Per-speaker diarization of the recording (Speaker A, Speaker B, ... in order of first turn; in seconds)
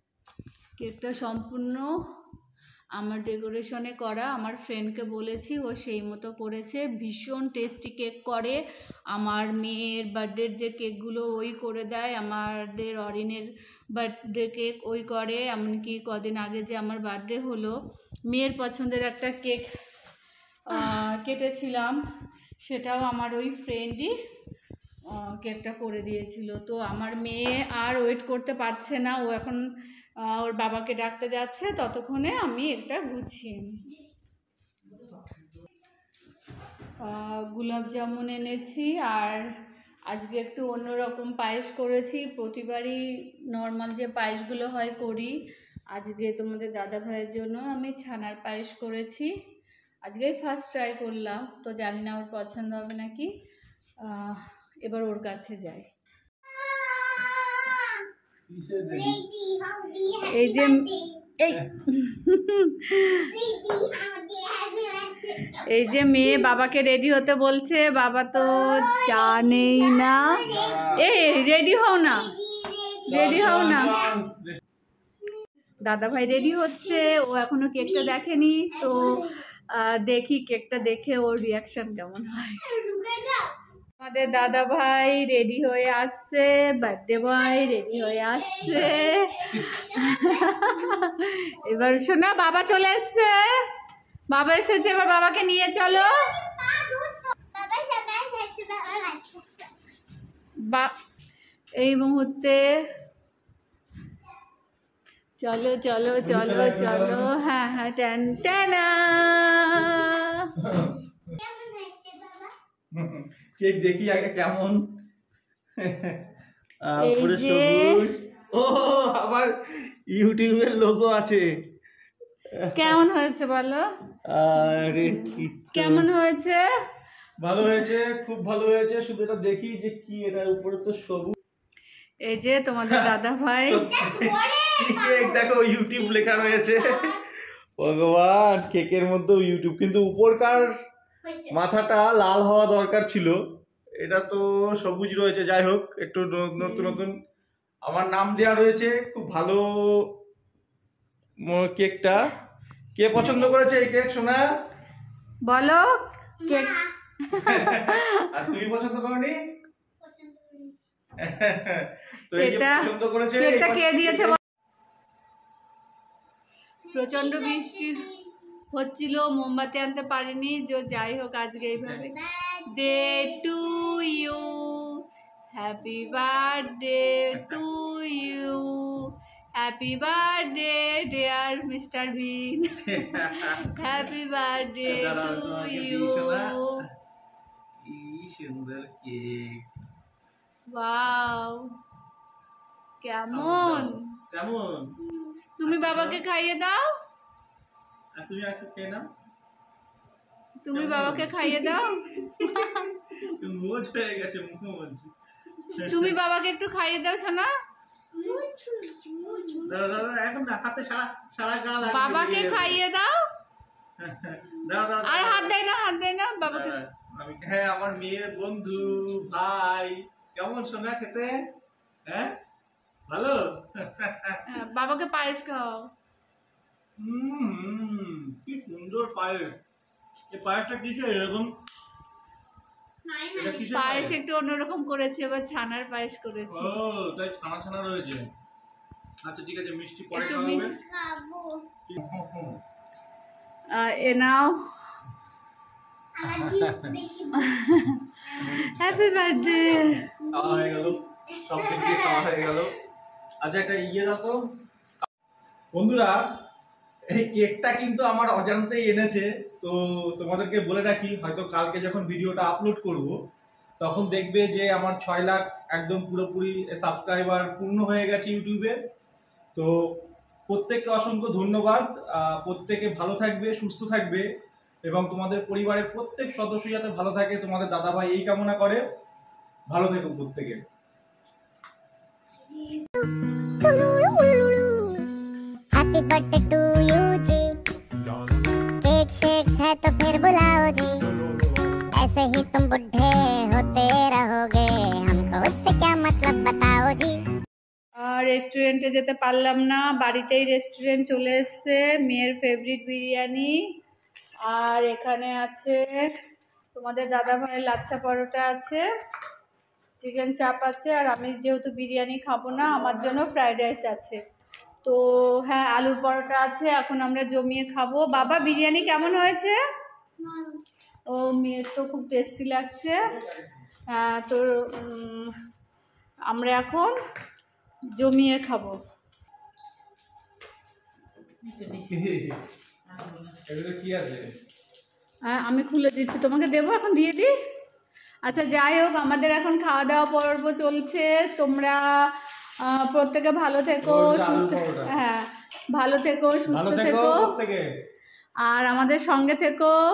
Speaker A: 0.8-1.9, 3.0-8.6, 9.1-17.7, 18.3-19.9, 20.7-22.0, 22.6-24.1, 25.1-29.6, 30.2-33.8, 37.0-39.4, 40.1-43.0, 43.5-45.3, 45.9-49.3, 50.0-53.3, 54.0-55.9, 60.3-60.9, 61.4-63.3, 65.7-72.3, 73.1-74.0, 75.8-82.7, 84.0-93.6, 94.3-96.1, 100.6-100.9, 101.8-102.7, 105.4-110.5, 117.0-118.0, 122.7-123.8, 124.7-126.7, 132.2-133.9, 146.6-147.0, 155.4-156.7, 157.2-158.4, 162.3-164.4, 166.9-168.0, 168.7-172.1, 172.7-175.0, 175.5-186.8, 190.7-191.7, 193.0-194.0, 195.6-196.8, 200.6-203.3, 205.8-207.5, 211.8-213.2, 215.0-216.8, 224.5-225.9, 233.7-236.8, 240.1-240.7, 243.7-244.6, 247.4-250.0, 298.0-303.6, 304.5-306.1, 306.7-308.8, 310.0-314.2, 314.8-319.6, 321.1-323.0, 323.9-325.4, 326.3-327.0, 327.9-328.8, 335.2-337.3, 338.2-341.8, 342.6-347.2, 348.4-349.7
Speaker B: 56.5-58.0, 58.9-61.2, 63.2-66.3, 68.3-71.4, 72.1-74.0, 78.7-79.4, 82.6-83.5, 87.4-91.9, 95.8-99.7, 111.3-112.5, 133.9-137.2, 141.2-141.6, 156.4-156.9, 160.0-160.8, 166.8-168.3, 171.8-174.3, 208.1-210.0, 233.0-233.8, 240.4-241.7, 246.1-247.7, 249.2-252.7, 282.4-285.1, 320.2-320.6
Speaker C: 58.5-59.2, 70.4-71.0, 73.1-74.6, 106.2-107.3, 110.6-110.9, 112.9-114.8, 115.8-116.3, 116.8-121.5, 122.5-123.0, 124.3-126.1, 127.4-131.3, 133.7-137.2, 137.8-140.7, 141.5-143.4, 144.0-147.2, 147.8-150.1, 151.4-152.2, 152.9-154.4, 157.4-159.4, 161.2-164.4, 182.8-183.8, 184.8-186.8, 187.8-189.6, 193.3-195.0, 195.6-196.2, 198.2-199.0, 200.7-205.1, 205.7-206.1, 209.6-212.8, 214.0-215.6, 216.4-221.4, 222.1-222.3, 223.1-224.4, 227.0-229.6, 230.3-231.5, 233.3-234.2, 236.5-238.3, 239.2-240.8, 241.9-242.6, 246.3-246.9, 248.4-249.0, 250.3-252.7, 253.4-254.4, 255.7-256.2, 257.1-263.1, 263.8-268.8, 270.5-274.3, 274.8-278.8, 279.7-280.6, 331.6-332.4, 332.9-334.3, 343.8-344.9, 346.5-347.6
Speaker D: 284.1-284.6, 285.7-287.5, 288.8-291.0, 291.9-297.2